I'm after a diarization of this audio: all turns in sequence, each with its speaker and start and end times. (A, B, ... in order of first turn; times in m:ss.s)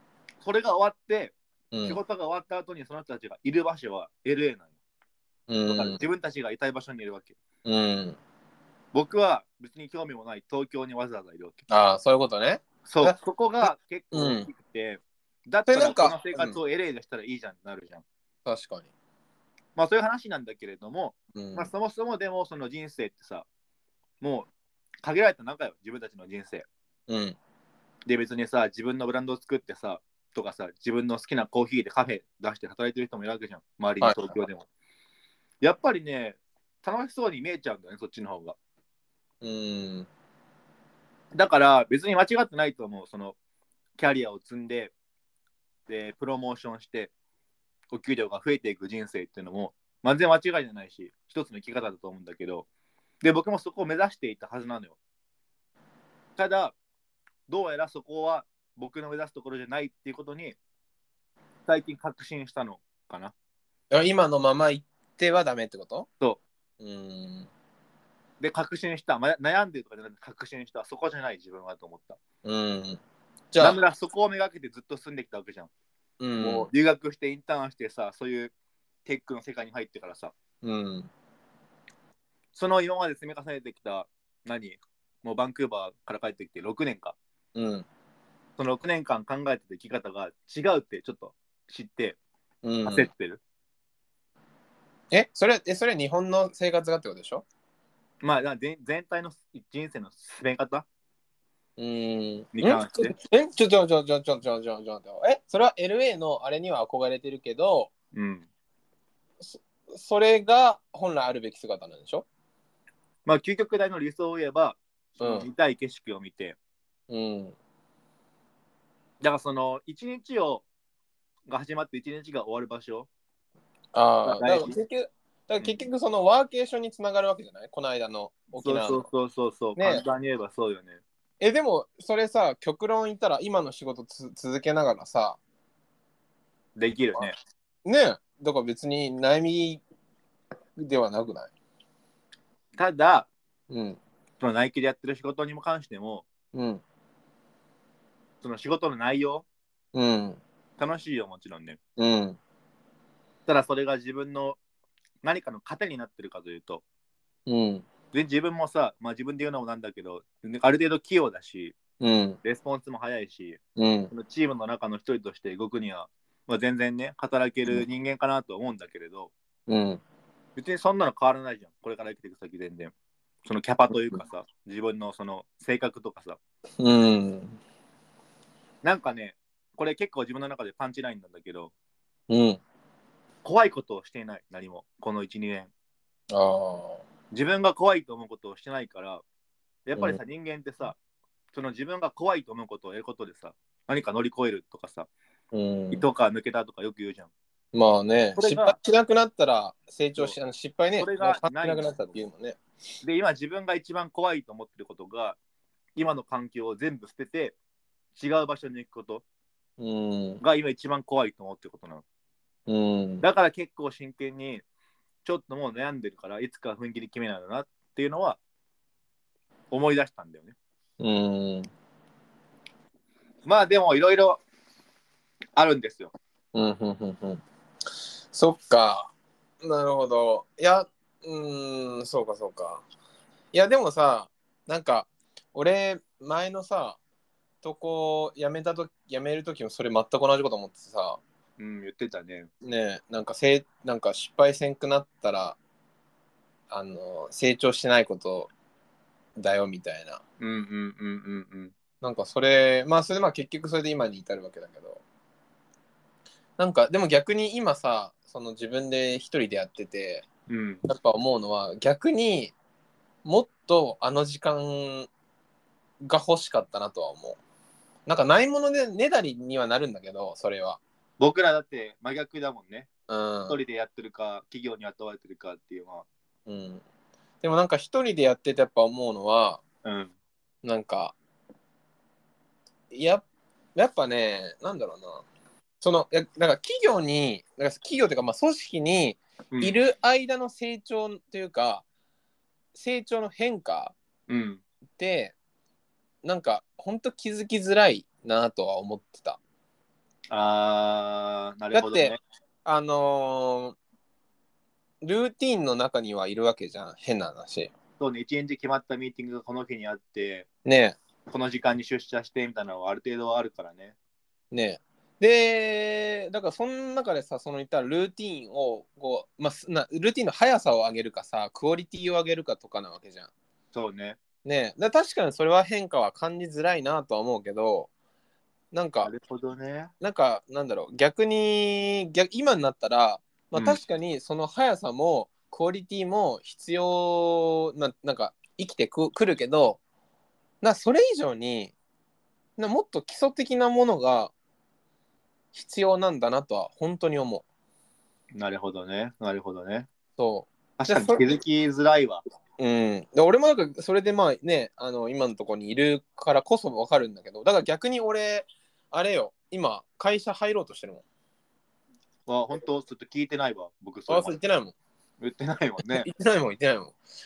0:00.4-0:04.7 A
0:01.7-0:02.0 B
0:05.5-0:06.0 B
0:05.7-0:07.4 A
0:07.6-0:08.2 B
0:08.9-0:11.6 A
0:11.7-0:14.5 B
0:12.8-0:18.0 A
0:15.6-0:16.6 B
0:18.4-0:18.9 B
0:19.8-0:23.4 A
0:21.3-0:21.7 B
0:24.2-0:24.5 A
0:25.0-0:26.7 A
0:27.1-0:27.4 B
0:28.0-0:34.7 A
0:34.0-0:34.4 B
0:35.6-0:38.6 A
0:39.4-0:40.1 B
0:41.3-0:43.4 A
0:44.0-0:44.9 A
0:45.9-0:47.1 A
0:47.9-0:52.6 A
0:53.2-0:55.0 A
0:56.4-0:56.7 A
0:57.5-1:00.6 A
1:01.7-1:03.3 A
1:03.9-1:06.1 B
1:06.8-1:07.5 B
1:08.4-1:12.2 A
1:12.4-1:13.0 B
1:13.5-1:13.8 B
1:13.6-1:15.7 A
1:16.2-1:16.7 B
1:16.4-1:18.5 A
1:19.0-1:20.3 A
1:20.6-1:21.1 B
1:22.5-1:27.2 A
1:27.5-1:27.8 B
1:28.6-1:32.2 A
1:32.6-1:33.1 B
1:32.8-1:33.4 A
1:35.1-1:37.4 B
1:38.2-1:40.8 A
1:41.8-1:47.9 B
1:42.5-1:43.1 A
1:48.1-1:48.5 A
1:49.4-1:52.2 B
1:53.2-1:56.6 A
1:55.2-1:55.5 B
1:57.1-1:57.6 B
1:59.2-2:00.6 A
2:01.5-2:03.1 A
2:03.9-2:09.1 B
2:04.2-2:04.7 A
2:08.6-2:11.0 A
2:09.8-2:10.0 B
2:11.4-2:15.4 B
2:16.8-2:17.3 A
2:17.8-2:19.8 B
2:20.8-2:21.5 B
2:22.8-2:23.3 A
2:23.7-2:24.0 B
2:24.4-2:26.2 A
2:26.5-2:26.8 B
2:28.4-2:29.4 A
2:29.9-2:30.4 B
2:30.8-2:31.8 A
2:32.0-2:32.4 B
2:33.5-2:34.6 A
2:35.2-2:36.8 A
2:37.5-2:37.8 B
2:38.1-2:41.8 A
2:42.0-2:42.4 B
2:42.4-2:43.6 A
2:43.8-2:44.1 B
2:44.1-2:49.3 A
2:49.7-2:50.0 B
2:50.6-2:52.9 A
2:53.4-2:56.4 A
2:53.9-2:54.2 B
2:56.8-2:57.6 B
2:58.8-3:01.7 A
3:02.3-3:02.6 B
3:03.4-3:05.7 A
3:06.3-3:07.0 B
3:07.3-3:09.2 A
3:09.9-3:11.0 A
3:11.5-3:15.1 A
3:15.5-3:16.0 B
3:15.9-3:17.3 A
3:17.7-3:22.6 B
3:18.3-3:18.8 A
3:21.0-3:22.2 A
3:23.0-3:25.4 A
3:26.0-3:27.6 A
3:28.2-3:29.2 A
3:29.8-3:30.4 B
3:30.4-3:32.0 A
3:32.7-3:33.2 B
3:33.2-3:34.6 A
3:35.2-3:38.4 A
3:39.7-3:40.5 A
3:41.0-3:41.7 B
3:43.4-3:44.4 A
3:45.6-3:46.1 A
3:46.5-3:47.4 B
3:48.3-3:52.8 B
3:53.5-3:57.0 B
3:57.6-4:01.2 B
4:01.6-4:02.5 A
4:02.6-4:05.6 B
4:06.7-4:08.5 B
4:09.4-4:10.2 B
4:10.4-4:11.7 A
4:12.0-4:15.0 B
4:16.6-4:20.2 B
4:20.5-4:20.8 A
4:20.9-4:22.5 B
4:23.2-4:25.1 B
4:26.0-4:27.4 B
4:28.0-4:30.8 B
4:31.2-4:32.9 A
4:33.1-4:33.6 B
4:33.5-4:36.0 A
4:36.5-4:36.8 B
4:37.4-4:39.6 B
4:39.8-4:40.1 A
4:40.6-4:41.2 B
4:42.9-4:43.2 B
4:43.8-4:45.2 B
4:45.8-4:51.8 B
4:49.5-4:49.8 A
4:52.7-4:53.9 B
4:54.3-4:54.6 A
4:55.0-4:55.3 B
4:56.2-4:59.4 B
5:00.3-5:02.2 A
5:01.7-5:03.8 B
5:05.0-5:07.7 B
5:08.0-5:10.5 A
5:10.6-5:11.0 B
5:11.3-5:14.0 A
5:14.5-5:23.3 B
5:23.7-5:24.2 A
5:24.4-5:27.9 B
5:28.7-5:29.1 B
5:29.0-5:29.9 A
5:30.0-5:39.8 B
5:33.5-5:33.8 A
5:40.6-5:41.7 B
5:42.6-5:44.3 B
5:45.5-5:47.4 B
5:48.3-5:49.9 A
5:50.2-5:51.3 B
5:50.8-5:52.2 A
5:52.6-6:01.0 B
6:02.2-6:04.4 A
6:04.1-6:04.7 B
6:05.2-6:06.1 A
6:05.9-6:07.0 B